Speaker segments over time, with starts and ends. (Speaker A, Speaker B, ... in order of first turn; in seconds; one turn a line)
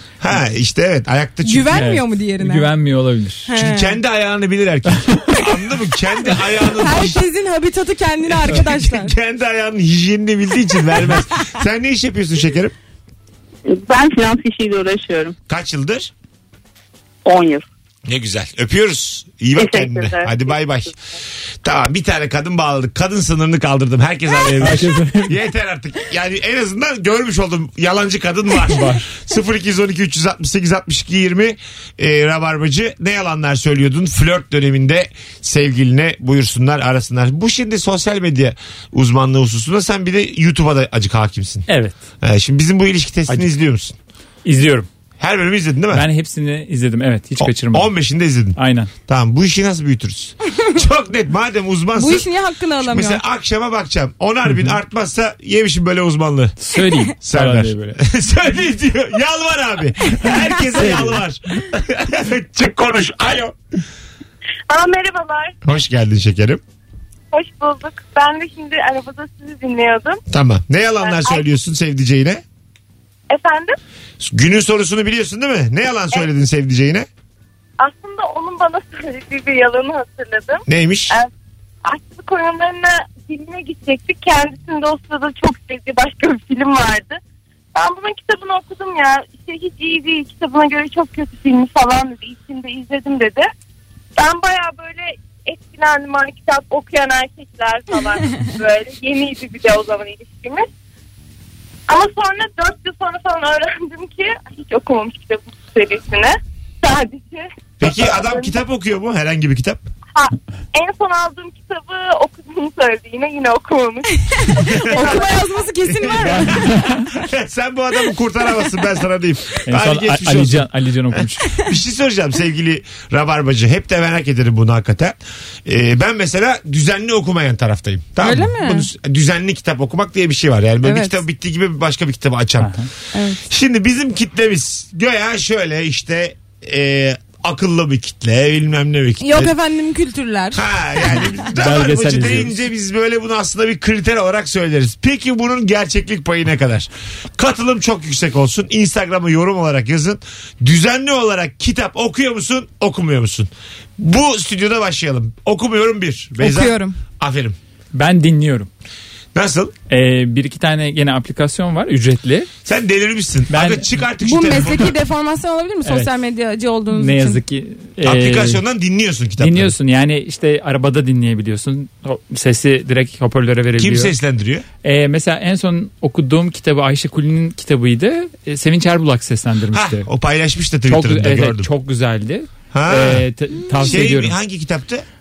Speaker A: 0.2-1.9
Speaker B: 1.4-2.7
Speaker C: 1.7-3.5
Speaker B: 3.5-4.0
Speaker A: 3.5-7.2
Speaker B: 6.6-9.2
Speaker A: 8.3-12.8
Speaker D: 13.7-15.4
Speaker A: 15.5-16.1
Speaker D: 17.2-17.6
Speaker A: 18.1-20.9
Speaker D: 19.6-20.5
Speaker A: 21.6-41.7
Speaker C: 24.6-25.4
Speaker C: 28.7-29.1
Speaker C: 41.7-42.0
Speaker A: 42.2-44.0
Speaker C: 44.5-44.9
Speaker A: 45.2-46.1
Speaker C: 45.9-47.9
Speaker A: 47.4-52.3
Speaker C: 48.5-48.9
Speaker B: 52.0-53.2
Speaker A: 52.8-56.6
Speaker C: 56.6-58.0
Speaker A: 57.2-63.6
Speaker C: 60.8-61.2
Speaker E: 64.7-65.5
Speaker A: 65.6-66.6
Speaker E: 67.3-70.2
Speaker A: 70.3-72.4
Speaker E: 71.0-71.4
Speaker E: 73.3-73.8
Speaker A: 74.2-77.1
Speaker E: 77.8-81.3
Speaker A: 80.7-81.1
Speaker E: 81.8-87.2
Speaker E: 87.8-93.5
Speaker E: 94.2-100.7
Speaker E: 101.9-108.6
Speaker A: 107.8-109.8
Speaker E: 110.2-115.2
Speaker A: 114.7-115.2
Speaker B: 114.8-116.6
Speaker A: 116.0-132.8
Speaker C: 116.2-117.1
Speaker C: 119.7-121.6
Speaker B: 128.2-128.9
Speaker B: 130.8-131.2
Speaker C: 132.6-132.9
Speaker B: 133.1-133.5
Speaker A: 133.4-139.5
Speaker B: 139.2-141.3
Speaker A: 140.5-157.6
Speaker C: 141.6-142.6
Speaker B: 156.4-157.0
Speaker C: 157.9-158.7
Speaker A: 159.3-159.7
Speaker C: 159.9-162.5
Speaker A: 162.7-164.9
Speaker C: 163.5-164.0
Speaker B: 164.2-167.4
Speaker C: 165.8-166.1
Speaker C: 166.9-168.6
Speaker A: 168.0-169.8
Speaker C: 169.4-174.2
Speaker A: 173.8-174.7
Speaker C: 174.8-180.1
Speaker A: 179.7-181.7
Speaker C: 180.9-184.4
Speaker A: 182.7-185.1